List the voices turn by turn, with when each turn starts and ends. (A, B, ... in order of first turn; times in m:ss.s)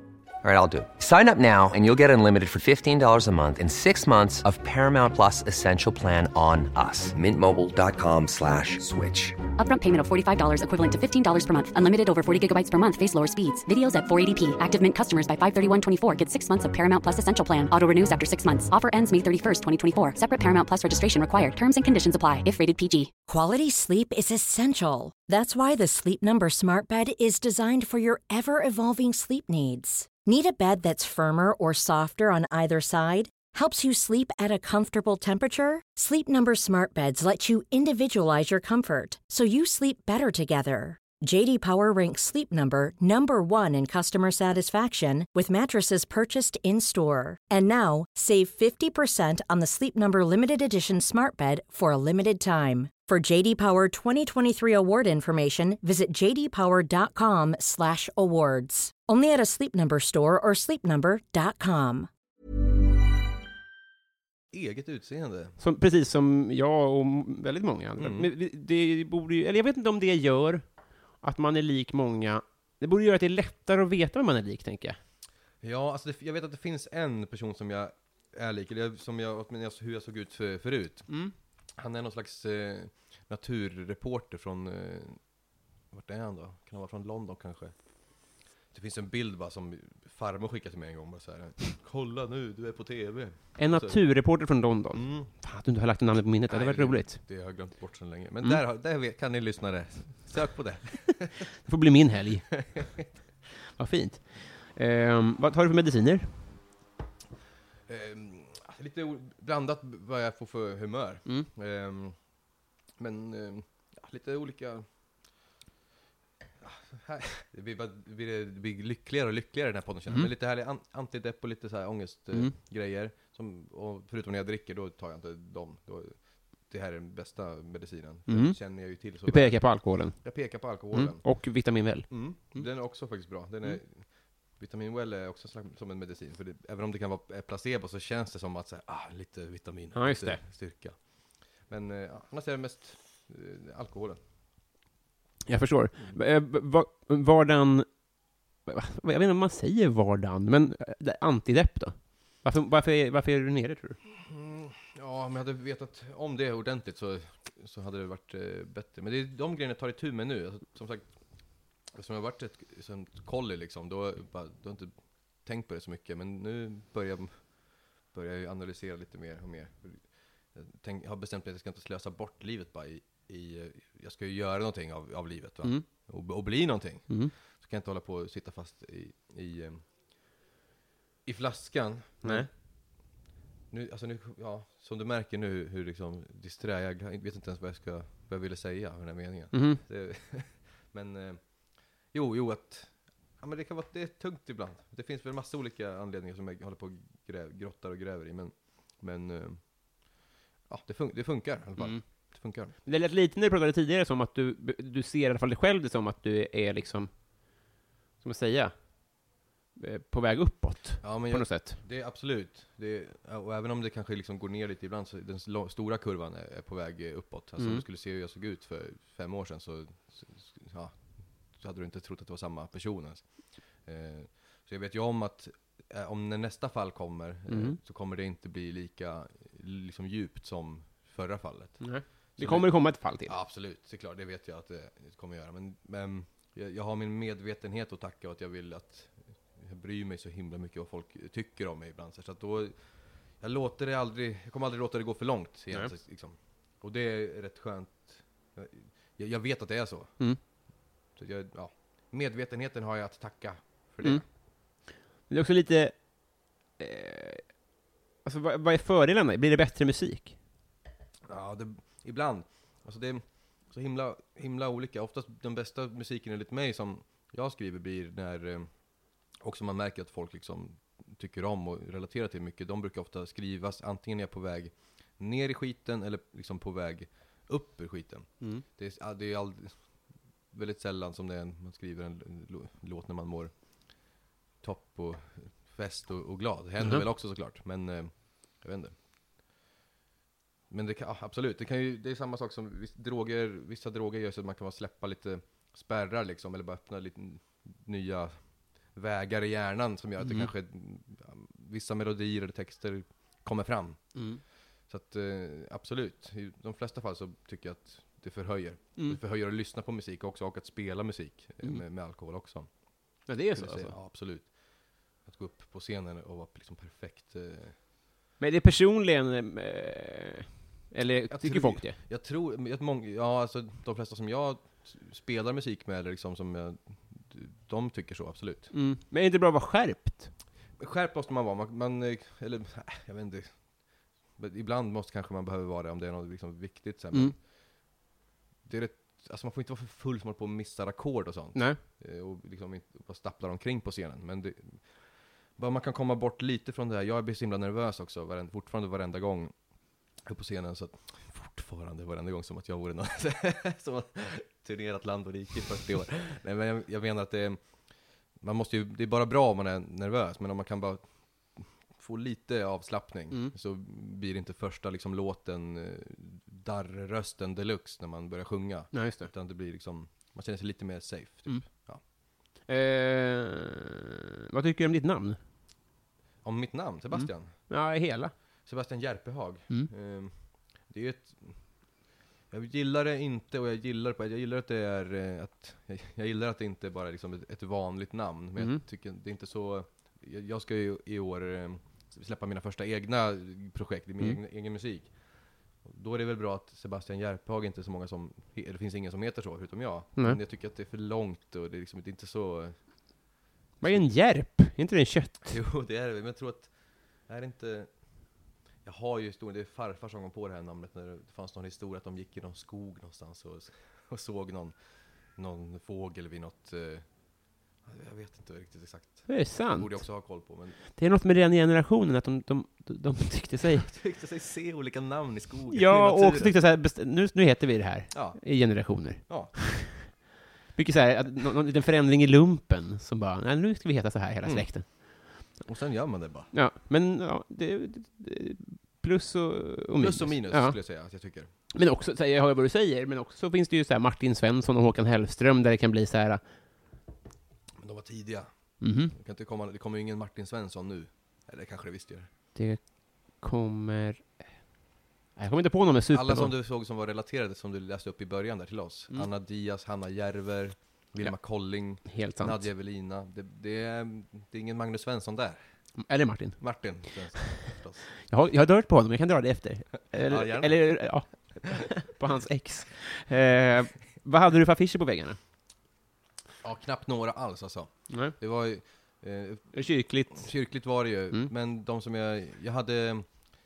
0:00.4-0:09.4 A
0:09.6-0:23.1 B
0:23.3-1:02.1 C
1:04.5-1:05.6 D
1:05.6-1:10.6 E
1:08.0-1:08.3 D
1:11.2-1:15.0 E
1:15.6-1:21.1 D
1:21.1-1:21.3 E
1:21.8-1:25.2 D
1:25.9-1:27.7 D
1:28.7-1:34.0 D
1:33.6-1:37.2 E
1:34.9-1:35.3 D
1:36.5-1:41.4 D
1:41.6-1:42.6 E
1:42.6-1:43.0 D
1:43.8-1:46.3 E
1:47.9-1:52.2 D
1:53.0-1:54.8 D
1:56.6-2:11.4 D
2:08.3-2:08.6 E
2:09.2-2:12.7 E
2:12.1-2:21.0 D
2:20.0-2:20.4 E
2:21.7-2:24.2 D
2:25.5-2:27.9 E
2:28.6-2:34.0 E
2:34.2-2:41.1 D
2:41.9-2:44.9 D
2:45.4-2:59.8 D
3:01.2-3:02.5 D
3:02.2-3:02.5 E
3:03.7-3:11.4 D
3:09.5-3:09.8 E
3:12.1-3:19.7 D
3:20.7-3:22.7 D
3:21.8-3:22.0 E
3:22.8-3:27.1 E
3:28.2-3:28.7 E
3:29.8-3:31.8 E
3:31.0-3:43.3 D
3:37.6-3:37.8 E
3:43.8-3:52.7 D
3:47.5-3:47.8 E
3:51.8-3:53.3 E
3:53.2-4:02.8 D
4:03.4-4:10.2 D
4:11.2-4:14.2 D
4:15.3-4:17.5 E
4:18.2-4:20.4 E
4:21.2-4:28.7 D
4:29.4-4:39.8 D
4:40.5-4:43.5 D
4:44.6-4:48.9 D
4:50.7-5:04.2 D
5:00.2-5:00.5 E
5:04.1-5:04.4 E
5:04.9-5:17.8 D
5:13.3-5:13.9 E
5:18.4-5:22.0 E
5:21.3-5:28.7 D
5:28.7-5:30.3 E
5:30.8-5:33.6 D
5:34.4-5:37.4 D
5:38.6-5:49.6 D
5:41.5-5:41.8 E
5:50.1-5:57.6 D
5:58.4-6:12.0 D
6:08.9-6:09.3 E
6:12.6-6:15.4 E
6:16.4-6:17.7 D
6:17.1-6:18.3 E
6:18.6-6:21.8 D
6:22.5-6:35.2 D
6:35.8-6:42.8 D
6:43.8-6:45.5 E
6:43.8-6:44.1 D
6:45.5-6:46.7 D
6:47.3-6:47.9 D
6:48.8-6:54.8 D
6:55.3-6:57.1 D
6:57.8-7:00.8 D
6:59.3-7:00.1 E
7:00.9-7:03.9 E
7:03.7-7:06.5 D
7:05.7-7:10.2 E
7:08.1-7:09.5 D
7:10.8-7:15.4 E
7:14.4-7:16.5 D
7:16.5-7:20.8 E
7:19.9-7:21.5 D
7:21.7-7:26.4 E
7:27.8-7:32.3 D
7:28.8-7:29.2 E
7:32.5-7:34.6 E
7:35.4-7:36.5 E
7:36.1-7:45.6 D
7:41.2-7:42.6 E
7:46.0-7:47.7 E
7:46.6-7:48.1 D
7:48.2-7:55.4 E
7:50.2-7:51.2 D
7:56.6-8:03.5 D
7:58.1-7:58.4 E
7:59.7-8:01.5 E